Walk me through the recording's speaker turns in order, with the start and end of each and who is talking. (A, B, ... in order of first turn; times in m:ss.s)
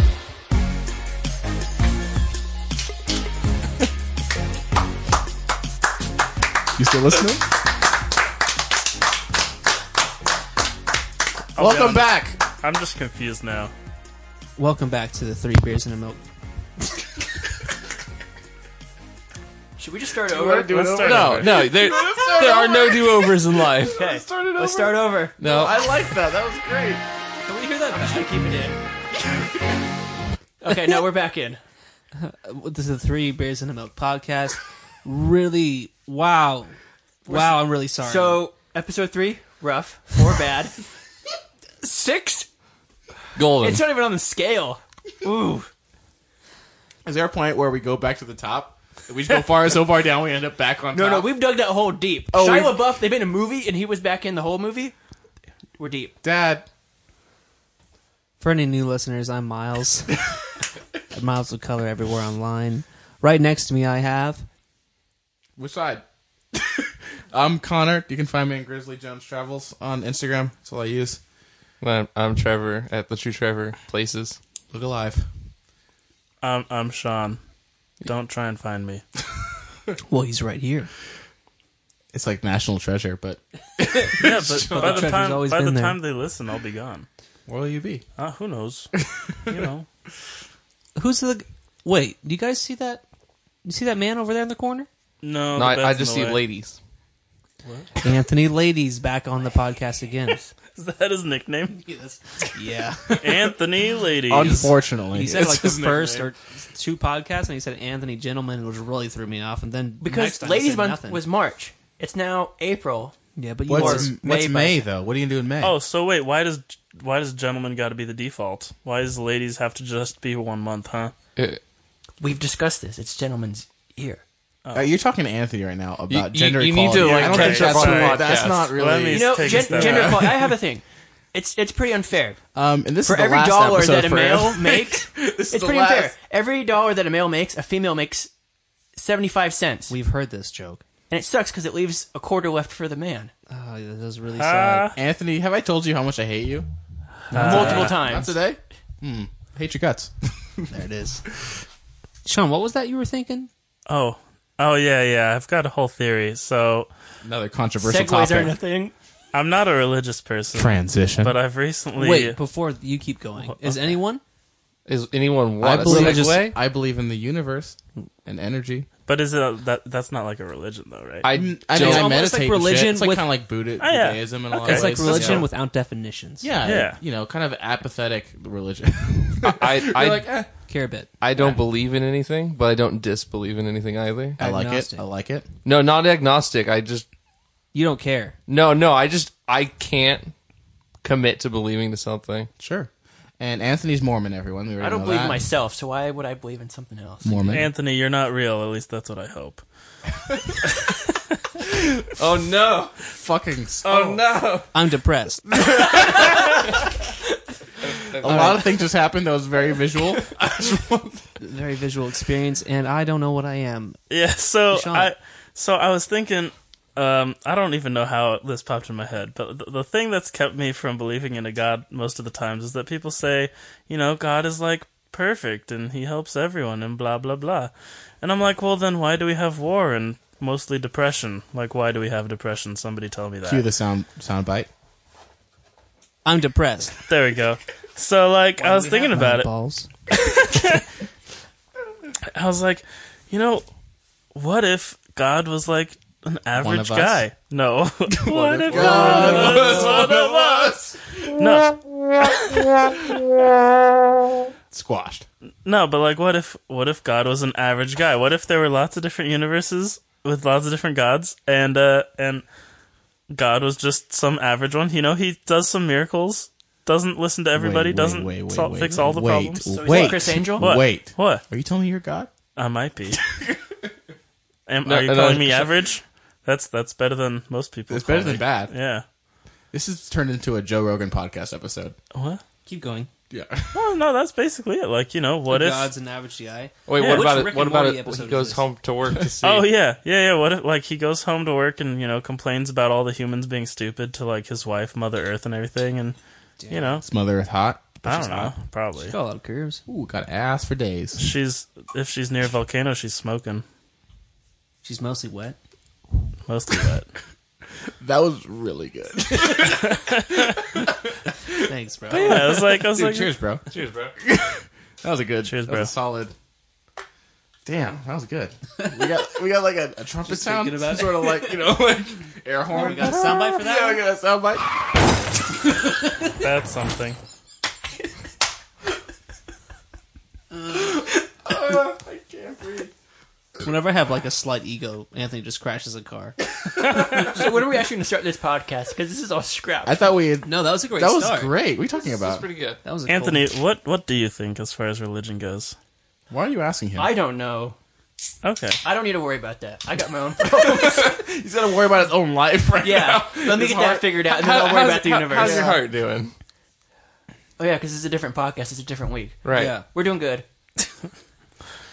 0:06.8-0:07.5 A
0:11.6-0:13.7 B
0:11.6-0:12.4 A
0:14.6-0:16.2 C
0:19.8-0:21.2 D
0:20.3-0:27.0 A
0:20.7-0:21.6 B
0:21.1-0:24.1 E
0:24.0-0:25.4 D
0:25.4-0:25.8 E
0:27.5-0:28.5 C
0:27.9-0:28.8 D
0:30.6-0:31.6 D
0:32.2-0:38.4 C
0:37.3-0:40.8 D
0:41.8-0:42.5 D
0:43.4-0:43.8 E
0:43.4-0:45.7 D
0:47.0-0:51.3 A
0:50.9-0:55.0 D
0:52.3-0:52.8 A
0:55.8-0:56.2 D
0:56.2-0:56.7 A
0:58.4-1:00.3 C
1:01.1-1:04.5 C
1:05.6-1:11.2 A
1:11.8-1:14.4 E
1:14.7-1:15.3 A
1:16.4-1:17.4 B
1:18.0-1:19.0 B
1:20.1-1:20.9 C
1:22.1-1:25.2 A
1:24.1-1:27.1 B
1:24.7-1:26.0 C
1:27.5-1:28.0 A
1:28.2-1:28.9 B
1:29.5-1:29.9 B
1:31.0-1:33.0 C
1:33.6-1:34.9 C
1:35.2-1:36.4 B
1:35.6-1:36.8 E
1:37.6-1:37.9 B
1:38.0-1:40.4 C
1:40.7-1:41.9 B
1:42.0-1:43.2 C
1:43.0-1:43.5 A
1:43.2-1:44.8 B
1:44.3-1:46.3 A
1:45.1-1:51.2 C
1:50.0-1:53.2 D
1:53.4-1:54.5 C
1:53.7-1:55.8 A
1:53.7-1:54.8 D
1:55.6-2:01.1 B
2:02.2-2:04.2 D
2:04.7-2:10.3 A
2:06.1-2:08.8 E
2:07.0-2:10.4 B
2:09.1-2:12.4 D
2:12.6-2:16.1 A
2:13.0-2:18.3 D
2:19.0-2:20.0 D
2:19.9-2:20.8 C
2:21.1-2:23.3 D
2:23.5-2:25.0 C
2:24.4-2:25.0 B
2:25.0-2:26.7 A
2:27.3-2:28.0 B
2:27.3-2:28.3 D
2:27.4-2:27.9 C
2:27.4-2:30.7 A
2:30.7-2:31.2 C
2:32.2-2:33.5 C
2:33.9-2:36.9 B
2:37.2-2:38.6 A
2:37.8-2:38.9 D
2:39.3-2:42.4 B
2:40.5-2:41.4 A
2:42.0-2:44.2 C
2:43.4-2:44.0 B
2:44.9-2:46.6 E
2:45.6-2:48.9 A
2:45.9-2:46.3 C
2:49.1-2:51.3 B
2:51.2-2:52.1 E
2:51.3-2:55.5 A
2:51.7-2:53.3 C
2:53.8-2:55.5 B
2:54.6-2:56.5 C
2:56.4-3:00.5 A
2:56.6-2:57.0 B
2:59.4-3:00.4 E
3:00.7-3:01.1 C
3:01.2-3:04.4 E
3:01.3-3:01.6 A
3:04.4-3:05.0 C
3:04.4-3:05.5 A
3:05.6-3:07.1 E
3:07.7-3:08.4 C
3:08.5-3:10.3 E
3:11.0-3:12.5 E
3:12.6-3:15.4 A
3:14.8-3:17.4 D
3:17.2-3:17.7 A
3:17.5-3:19.6 B
3:21.6-3:22.0 A
3:22.2-3:23.0 E
3:23.1-3:24.2 A
3:23.8-3:24.7 E
3:24.7-3:25.4 C
3:25.5-3:26.8 A
3:27.8-3:28.7 E
3:28.1-3:31.3 A
3:28.2-3:28.6 C
3:31.4-3:34.0 C
3:34.1-3:53.7 B
3:34.7-3:35.1 C
3:53.4-3:54.7 A
3:56.2-3:57.0 C
3:57.1-3:59.5 B
3:58.6-3:59.9 C
4:00.1-4:00.8 B
4:02.3-4:03.6 B
4:04.3-4:10.7 B
4:06.6-4:07.2 A
4:08.2-4:11.5 A
4:08.7-4:10.2 E
4:11.4-4:13.1 B
4:14.7-4:15.3 A
4:15.6-4:22.4 B
4:23.3-4:31.4 B
4:27.5-4:32.3 A
4:29.7-4:30.7 D
4:32.6-4:33.2 B
4:33.1-4:33.9 A
4:34.7-4:39.1 B
4:34.8-4:35.8 E
4:37.9-4:38.7 A
4:39.7-4:42.0 A
4:42.1-4:42.4 B
4:42.7-4:43.1 C
4:43.3-4:43.8 A
4:43.7-4:45.9 B
4:45.5-4:48.7 C
4:46.9-4:49.7 E
4:47.0-4:47.3 B
4:49.4-4:56.2 B
4:56.6-4:57.0 C
4:56.7-4:57.0 B
4:57.0-4:58.5 A
4:58.0-4:59.1 B
4:59.0-4:59.8 C
4:59.9-5:01.2 A
5:01.2-5:03.6 B
5:04.8-5:05.6 C
5:06.5-5:07.1 B
5:08.0-5:11.6 A
5:09.9-5:10.4 B
5:11.7-5:12.6 C
5:12.1-5:16.3 A
5:12.1-5:13.3 B
5:13.7-5:14.2 E
5:15.4-5:15.9 B
5:17.7-5:24.8 A
5:20.3-5:21.4 C
5:22.7-5:24.0 C
5:26.2-5:27.2 B
5:30.7-5:32.9 A
5:33.6-5:36.4 C
5:36.8-5:40.1 D
5:39.8-5:42.5 A
5:40.4-5:41.6 C
5:42.1-5:42.8 E
5:42.8-5:43.5 C
5:43.1-5:45.8 B
5:46.3-5:47.1 A
5:47.0-5:47.8 D
5:48.4-5:48.8 B
5:48.8-5:51.2 D
5:50.4-5:54.2 A
5:52.8-5:55.8 D
5:54.2-5:56.3 E
5:55.3-5:55.8 A
5:57.6-6:00.4 D
5:59.4-5:59.8 E
5:59.5-5:59.8 C